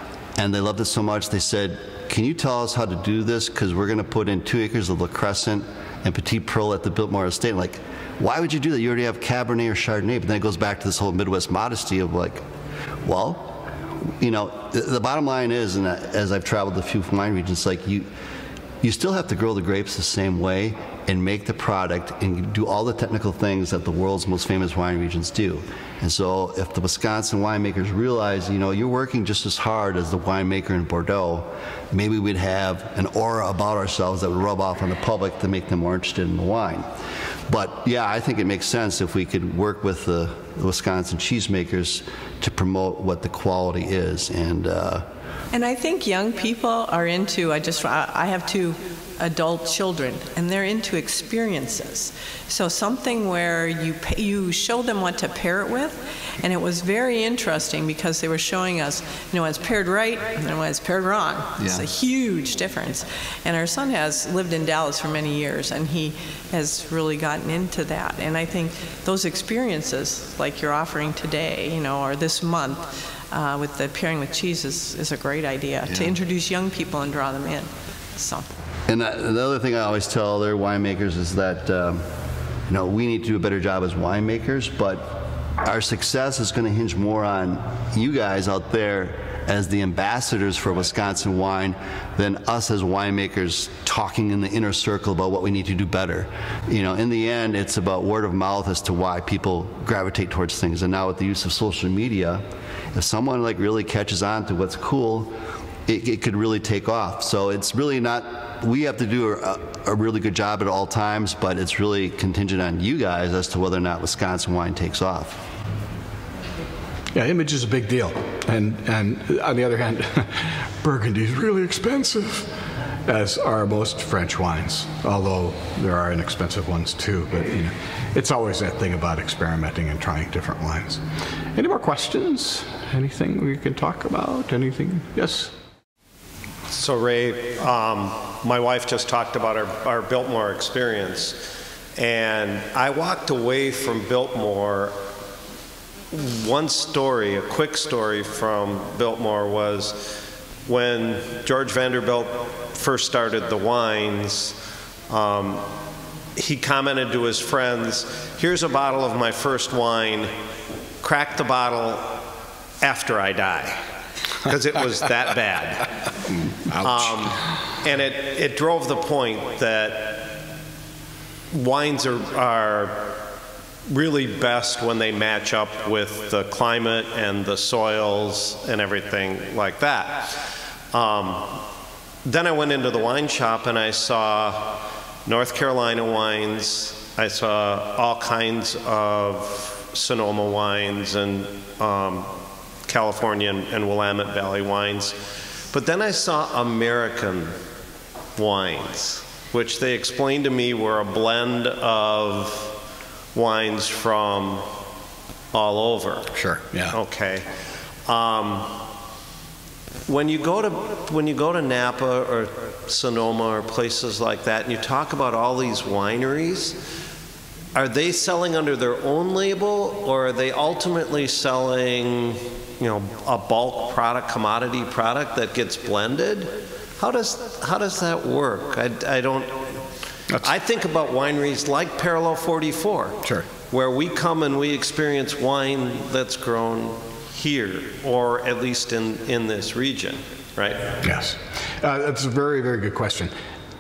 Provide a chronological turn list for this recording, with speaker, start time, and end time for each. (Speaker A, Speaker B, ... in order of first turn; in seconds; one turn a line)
Speaker A: 0.4-12.4
Speaker A: 13.0-13.7
Speaker A: 14.2-18.1
Speaker A: 18.8-36.9
Speaker A: 37.5-45.1
Speaker B: 45.5-78.5
Speaker A: 61.6-61.9
Speaker A: 75.9-76.2
Speaker A: 78.9-82.1
Speaker A: 82.7-115.4
Speaker C: 117.2-122.5
Speaker C: 123.1-131.0
Speaker C: 131.6-135.5
Speaker D: 136.7-141.4
Speaker D: 142.0-145.0
Speaker D: 146.1-150.2
Speaker D: 150.7-154.6
Speaker D: 155.1-155.7
Speaker D: 156.3-160.3
Speaker D: 161.0-162.2
Speaker D: 162.8-163.8
Speaker D: 164.4-165.9
Speaker C: 166.7-167.1
Speaker D: 166.8-170.3
Speaker D: 171.5-173.2
Speaker D: 173.9-180.4
Speaker D: 180.9-181.6
Speaker D: 182.2-192.3
Speaker D: 192.9-195.2
Speaker D: 195.7-197.6
Speaker D: 198.4-202.7
Speaker D: 203.3-204.7
Speaker D: 205.5-206.3
Speaker C: 206.3-207.0
Speaker D: 206.9-207.5
Speaker D: 208.1-208.8
Speaker D: 210.1-216.8
Speaker D: 217.8-229.7
Speaker D: 230.4-240.9
Speaker C: 241.0-243.3